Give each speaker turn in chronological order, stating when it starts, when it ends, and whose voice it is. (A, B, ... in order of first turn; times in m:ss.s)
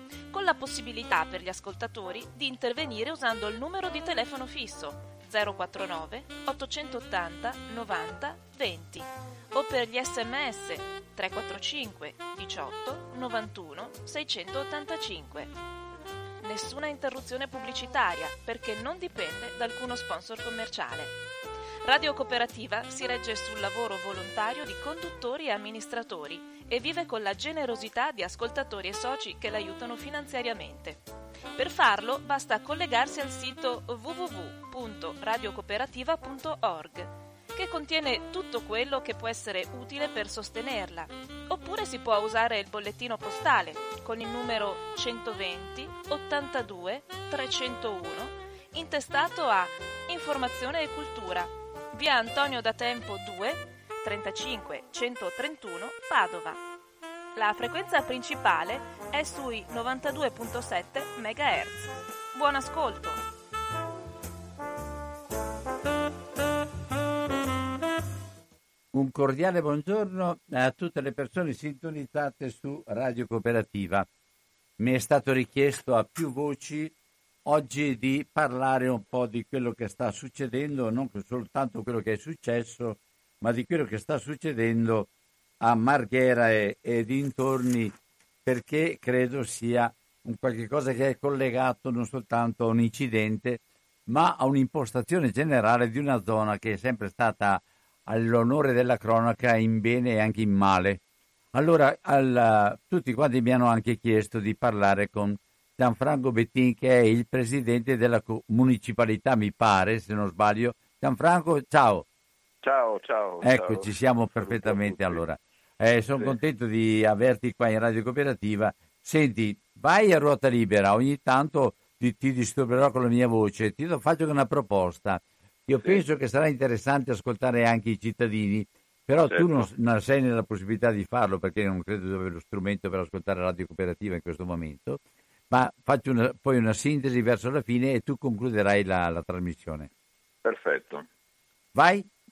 0:00.3-0:15.5 A
0:16.4-0:21.2 A
0:21.8-0:31.0 A
0:31.6-0:56.6 A
0:57.4-1:03.2 A
1:08.9-1:14.1 B
1:14.8-1:16.9 B
1:17.4-1:41.0 B
1:41.5-1:52.0 B
1:52.6-1:55.2 C
1:53.4-2:19.9 B
2:09.2-2:09.7 C
2:20.4-2:21.1 C
2:21.7-2:22.1 B